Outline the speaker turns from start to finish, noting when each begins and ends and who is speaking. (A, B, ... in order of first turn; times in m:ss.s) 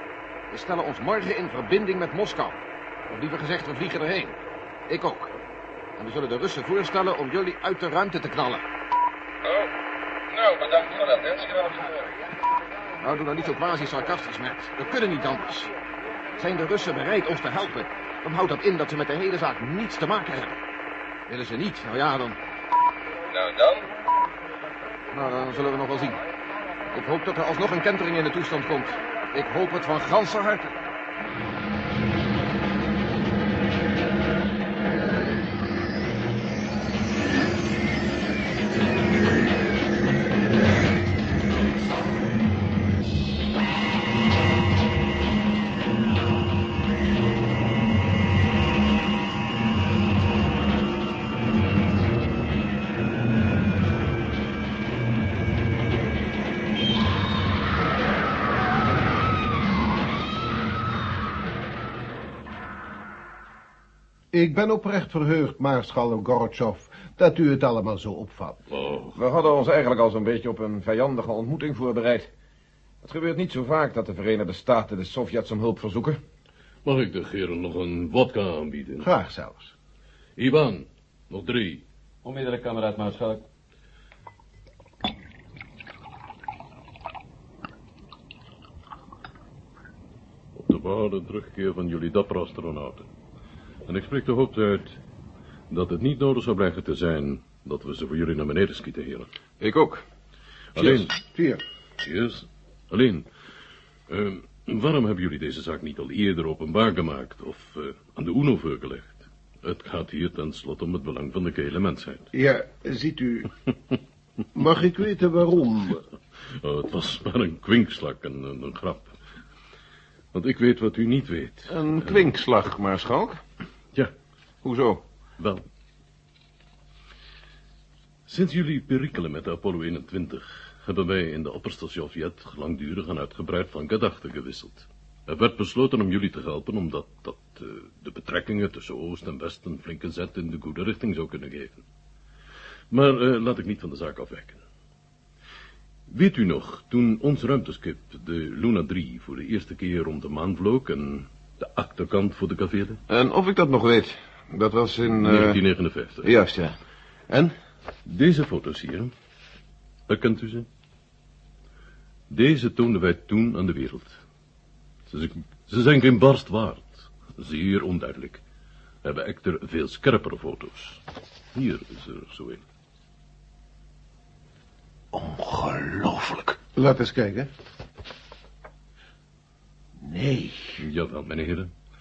0:00.5-0:04.4 A
0:04.9-0:05.3 A
0:06.0-0:08.6 A
0:09.4-0:09.7 B
0:10.3-0:12.1 B
0:13.0-0:15.7 A
0:16.4-0:20.6 A
0:21.3-0:22.4 A
0:23.3-0:23.9 B
0:25.1-0:26.2 A
0:26.9-0:30.8 A
1:04.3-1:08.6 C
1:08.8-1:09.2 D
1:08.9-1:09.2 E
1:09.2-1:12.3 A
1:13.0-1:16.2 A
1:16.9-1:19.0 E
1:16.9-1:17.2 D
1:19.0-1:19.7 C
1:20.4-1:21.8 E
1:22.2-1:23.3 D
1:30.6-1:33.1 E
1:33.9-1:35.0 E
1:35.7-1:39.3 E
1:39.6-1:40.0 A
1:40.8-1:41.1 E
1:40.8-1:41.6 C
1:42.0-1:43.2 E
1:44.2-1:52.2 E
1:52.3-1:53.5 C
1:54.5-1:56.0 C
1:56.7-1:59.1 E
2:00.3-2:02.2 E
2:01.1-2:02.2 D
2:01.7-2:03.4 A
2:04.6-2:05.0 A
2:08.3-2:21.8 E
2:22.9-2:24.6 E
2:26.1-2:33.0 E
2:33.1-2:35.6 A
2:35.0-2:36.4 E
2:35.3-2:36.3 D
2:36.2-2:36.7 A
2:38.2-2:39.1 E
2:40.1-2:40.6 E
2:42.4-2:44.2 E
2:45.1-2:48.4 E
2:49.0-2:51.0 E
2:51.5-2:52.6 E
2:55.5-2:56.0 C
2:56.6-2:57.5 C
3:00.0-3:00.8 C
3:00.9-3:01.7 E